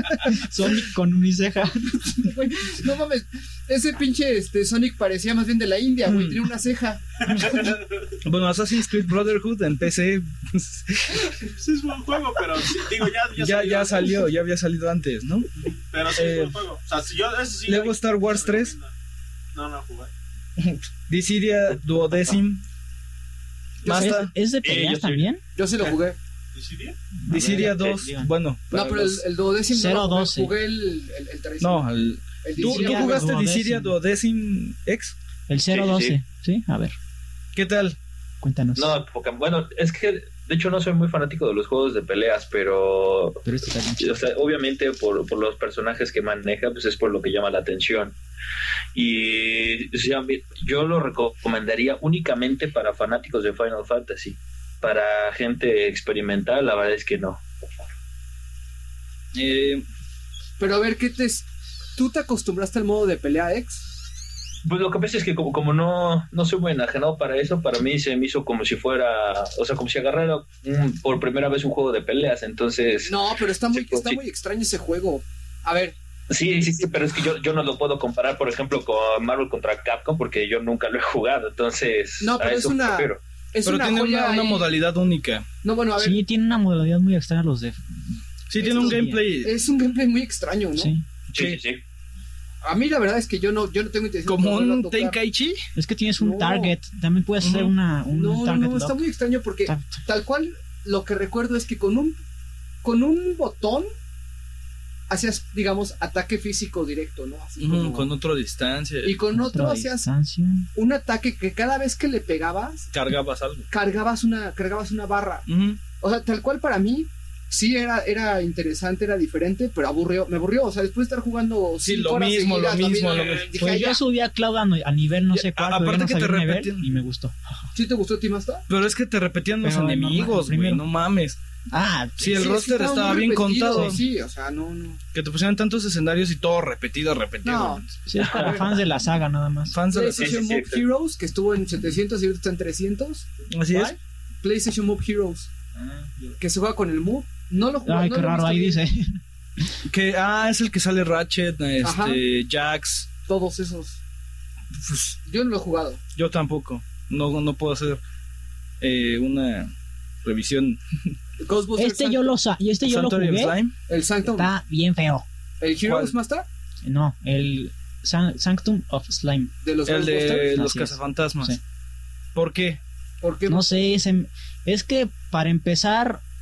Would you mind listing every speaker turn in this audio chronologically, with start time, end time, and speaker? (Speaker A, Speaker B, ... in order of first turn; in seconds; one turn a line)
Speaker A: 0.3-2.1
Speaker B: 2.1-7.5
Speaker C: 6.0-6.4
Speaker D: 7.5-7.8
Speaker C: 8.2-11.3
Speaker D: 11.6-14.2
Speaker C: 13.3-15.5
Speaker D: 15.6-18.9
Speaker C: 16.1-16.6
Speaker C: 17.6-18.7
Speaker D: 19.5-20.1
Speaker C: 20.6-22.6
Speaker C: 23.8-24.3
Speaker A: 23.9-25.4
Speaker E: 24.6-25.3
Speaker B: 25.6-26.2
Speaker D: 26.5-27.0
Speaker A: 27.2-28.3
Speaker C: 27.3-29.2
Speaker B: 28.7-31.9
Speaker A: 29.7-30.5
Speaker C: 31.6-35.1
Speaker B: 32.4-33.3
Speaker A: 32.6-34.0
Speaker A: 35.5-36.9
Speaker E: 35.7-36.2
Speaker C: 37.5-38.0
Speaker A: 38.4-39.0
Speaker E: 38.8-43.4
Speaker A: 43.4-44.2
Speaker E: 44.0-48.1
Speaker E: 48.9-57.4
Speaker C: 59.3-59.8
Speaker B: 60.6-63.8
Speaker E: 64.6-74.2
Speaker B: 73.0-76.0
Speaker E: 76.3-83.2
Speaker B: 82.2-84.7
Speaker C: 83.6-85.5
Speaker B: 85.6-86.2
Speaker A: 86.0-89.2
Speaker C: 88.5-89.5
Speaker B: 88.6-90.9
Speaker A: 90.8-91.0
Speaker E: 91.3-91.8
Speaker B: 92.6-95.2
Speaker C: 94.2-95.6
Speaker A: 95.7-99.0
Speaker B: 96.2-96.7
Speaker C: 97.4-97.7
Speaker B: 98.1-102.2
Speaker A: 99.7-100.0
Speaker B: 102.8-103.9
Speaker B: 105.1-108.1
Speaker C: 107.6-109.2
Speaker B: 109.0-110.1
Speaker A: 109.3-110.7
Speaker B: 110.7-112.9
Speaker C: 112.9-113.7
Speaker B: 113.7-115.4
Speaker C: 115.5-115.8
Speaker B: 116.0-124.0
Speaker C: 121.8-123.5
Speaker A: 123.6-127.7
Speaker C: 125.3-127.0
Speaker B: 127.7-128.6
Speaker C: 128.7-131.4
Speaker A: 129.6-130.8
Speaker A: 131.7-132.5
Speaker C: 132.2-134.0
Speaker B: 132.3-135.0
Speaker C: 135.1-137.8
Speaker B: 137.4-138.7
Speaker A: 138.1-139.8
Speaker E: 138.2-138.6
Speaker C: 139.7-140.6
Speaker B: 139.9-143.3
Speaker E: 140.2-140.9
Speaker C: 143.5-143.9
Speaker B: 144.4-145.5
Speaker A: 145.7-146.3
Speaker B: 146.4-148.8
Speaker A: 147.8-149.2
Speaker C: 149.8-153.1
Speaker B: 151.8-152.2
Speaker B: 153.3-154.0
Speaker C: 154.8-155.2
Speaker B: 155.2-156.0
Speaker C: 156.2-158.0
Speaker C: 158.8-159.7
Speaker C: 160.2-161.1
Speaker B: 161.4-162.2
Speaker A: 161.8-163.6
Speaker C: 162.8-163.7
Speaker B: 163.9-164.5
Speaker A: 164.3-165.2
Speaker B: 165.6-166.5
Speaker C: 165.8-166.1
Speaker A: 166.8-171.6
Speaker B: 169.6-170.4
Speaker C: 169.8-171.5
Speaker C: 172.3-172.8
Speaker B: 173.2-173.8
Speaker A: 173.5-176.2